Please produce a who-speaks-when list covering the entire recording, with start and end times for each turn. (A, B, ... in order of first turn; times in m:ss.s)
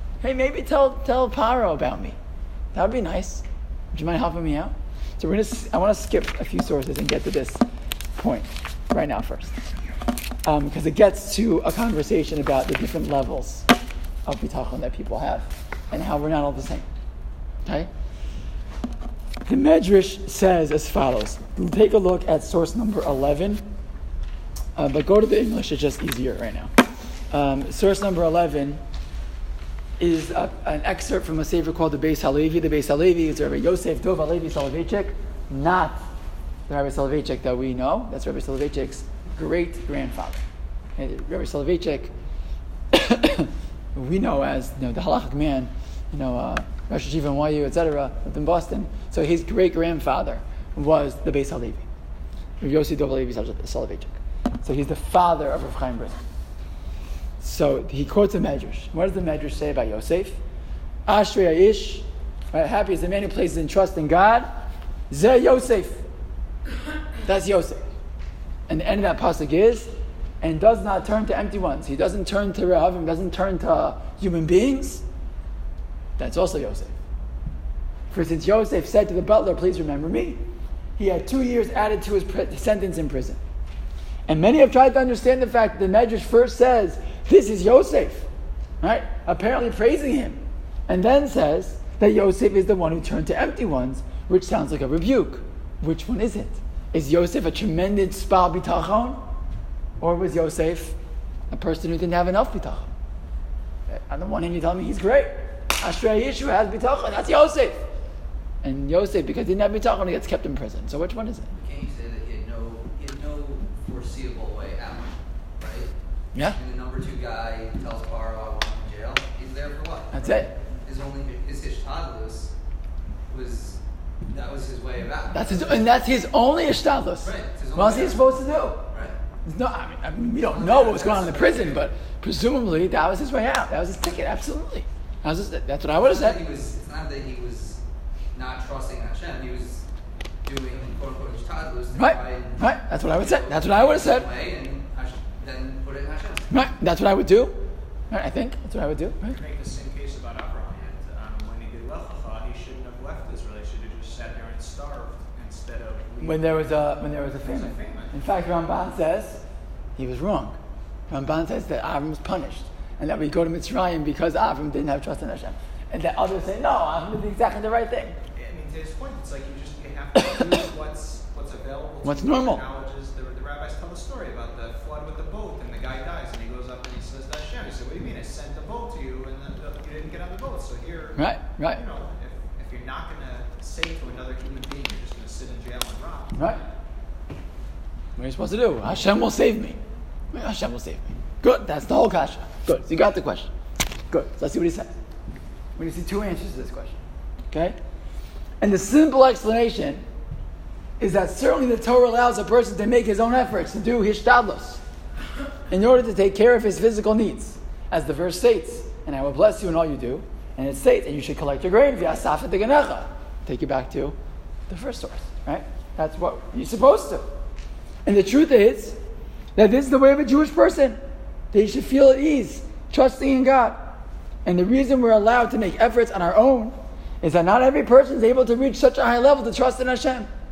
0:00.2-0:02.2 A
0:02.7-0:07.6 A
0:08.2-0:09.6 A
0:10.4-0:13.7 A
0:14.2-0:16.9 A
0:17.6-0:17.9 A
0:19.4-0:23.6 A
0:24.8-0:26.7 A
0:27.3-0:28.8 A
0:30.0-0:36.0 A
0:36.7-0:40.4 A
0:41.0-0:42.1 A
0:42.9-0:51.8 A
0:52.6-0:56.2 A
0:57.4-1:00.4 A
1:01.0-1:04.5 A
1:05.1-1:06.0 A
1:07.2-1:07.8 A
1:08.7-1:15.0 A
1:16.2-1:16.9 A
1:18.1-1:20.4 A
1:21.0-1:23.4 A
1:24.3-1:28.3 A
1:28.8-1:39.2 A
1:40.0-1:41.0 A
1:41.5-1:42.9 A
1:43.9-1:47.8 A
1:48.6-1:51.5 A
1:51.5-1:55.9 B
1:56.4-2:02.5 B
2:00.1-2:00.5 A
2:03.3-2:05.9 B
2:05.3-2:08.8 A
2:07.2-2:08.3 B
2:08.9-2:09.1 B
2:09.4-2:16.4 A
2:10.4-2:11.9 B
2:15.9-2:17.8 B
2:18.3-2:19.8 B
2:20.4-2:26.5 B
2:21.9-2:24.3 A
2:26.5-2:29.4 A
2:29.2-2:38.2 C
2:36.2-2:39.4 A
2:40.0-2:40.6 A
2:41.1-2:48.2 A
2:48.3-3:06.5 C
2:50.2-2:50.5 A
2:52.0-2:52.6 A
3:01.2-3:01.8 A
3:06.3-3:06.6 A
3:08.2-3:09.8 A
3:10.3-3:13.5 A
3:14.1-3:14.9 A
3:15.8-3:17.0 A
3:18.6-3:20.0 A
3:21.0-3:24.8 A
3:25.7-3:34.1 A
3:34.7-3:37.2 A
3:38.0-3:39.0 A
3:39.6-3:41.0 A
3:41.5-3:50.3 A